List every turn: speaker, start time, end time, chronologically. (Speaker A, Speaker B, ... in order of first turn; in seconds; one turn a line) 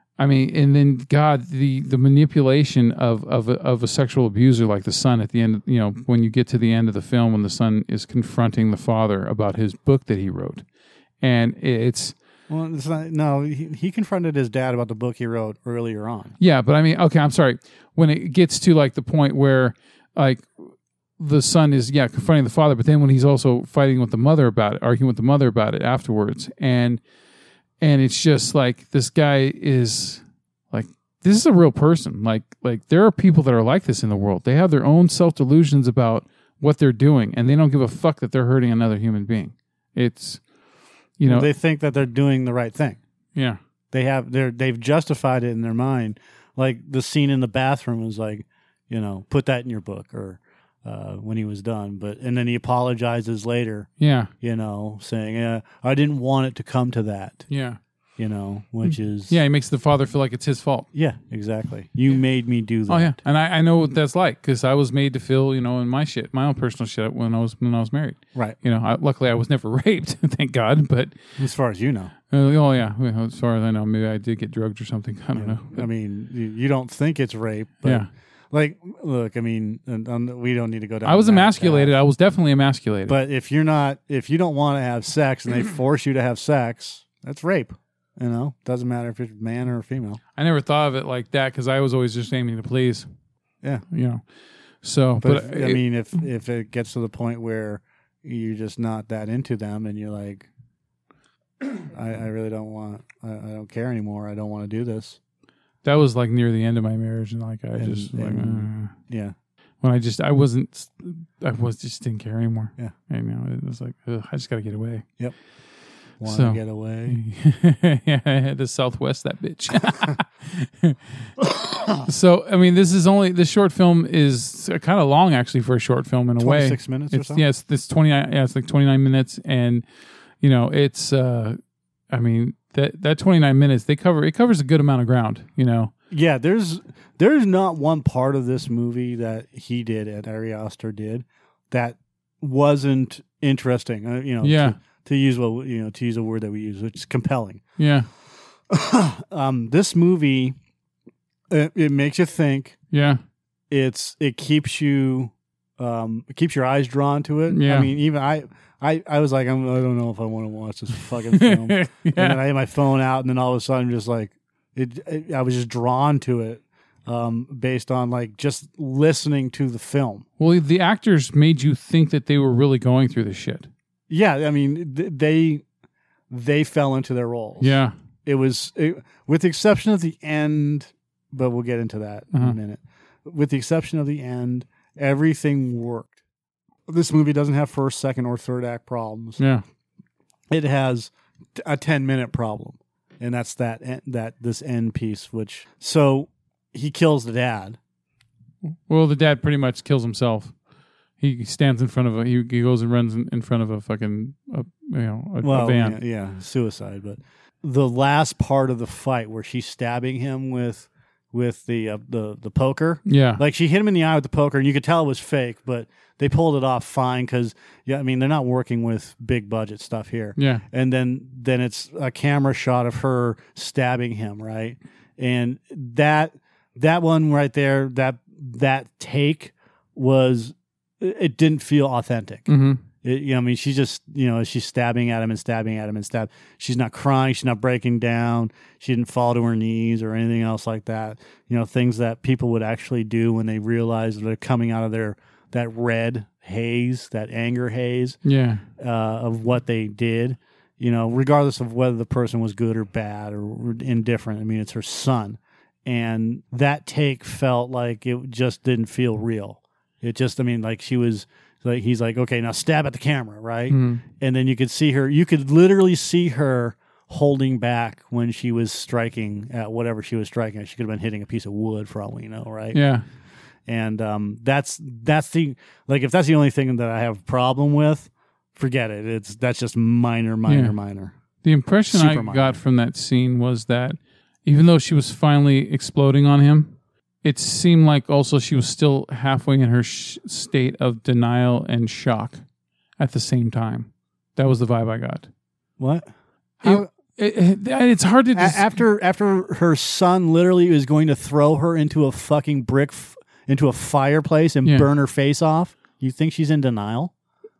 Speaker A: 0.2-10.6
Speaker A: 11.2-12.1
Speaker B: 12.5-16.3
Speaker A: 16.4-20.5
Speaker A: 21.2-27.0
Speaker A: 27.8-40.4
Speaker A: 41.2-41.5
Speaker B: 41.2-43.0
Speaker B: 43.9-53.9
Speaker A: 54.0-54.3
Speaker B: 54.4-57.5
Speaker A: 57.5-57.8
Speaker B: 58.2-59.4
Speaker A: 58.8-60.9
Speaker B: 60.9-63.2
Speaker A: 62.9-71.2
Speaker B: 71.4-72.1
Speaker A: 72.3-75.9
Speaker B: 75.3-82.0
Speaker A: 77.8-78.1
Speaker A: 81.0-83.2
Speaker B: 83.1-90.2
Speaker A: 90.3-93.1
Speaker A: 93.9-94.2
Speaker A: 94.8-95.8
Speaker B: 95.2-100.5
Speaker B: 101.6-105.2
Speaker A: 105.8-108.9
Speaker B: 107.8-109.3
Speaker A: 109.8-115.0
Speaker B: 116.2-117.2
Speaker A: 116.2-121.3
Speaker B: 121.4-122.1
Speaker A: 122.0-129.8
Speaker B: 126.4-127.4
Speaker A: 130.4-131.6
Speaker A: 132.1-135.9
Speaker B: 136.1-147.6
Speaker A: 144.4-144.8
Speaker A: 147.8-148.1
Speaker B: 148.7-150.6
Speaker B: 151.5-152.8
Speaker A: 152.9-153.2
Speaker B: 153.7-170.2
Speaker A: 157.5-157.9
Speaker A: 161.3-162.4
Speaker A: 170.4-173.7
Speaker B: 174.1-175.6
Speaker B: 176.3-186.2
Speaker A: 177.6-177.9
Speaker B: 186.9-189.4
Speaker A: 189.4-189.6
Speaker B: 190.5-197.8
Speaker A: 198.9-200.5
Speaker A: 201.2-206.0
Speaker B: 205.4-232.5
Speaker A: 213.1-213.4
Speaker A: 220.4-220.6
Speaker A: 232.5-232.8
Speaker B: 233.0-248.2
Speaker A: 248.2-248.6
Speaker B: 248.8-272.8
Speaker A: 263.7-264.0
Speaker A: 272.7-273.0
Speaker B: 273.7-281.1
Speaker A: 280.4-280.8
Speaker A: 281.4-292.4
Speaker B: 281.9-282.6
Speaker A: 293.0-295.3
Speaker B: 295.8-296.0
Speaker B: 296.6-296.9
Speaker A: 296.6-298.8
Speaker B: 298.3-307.1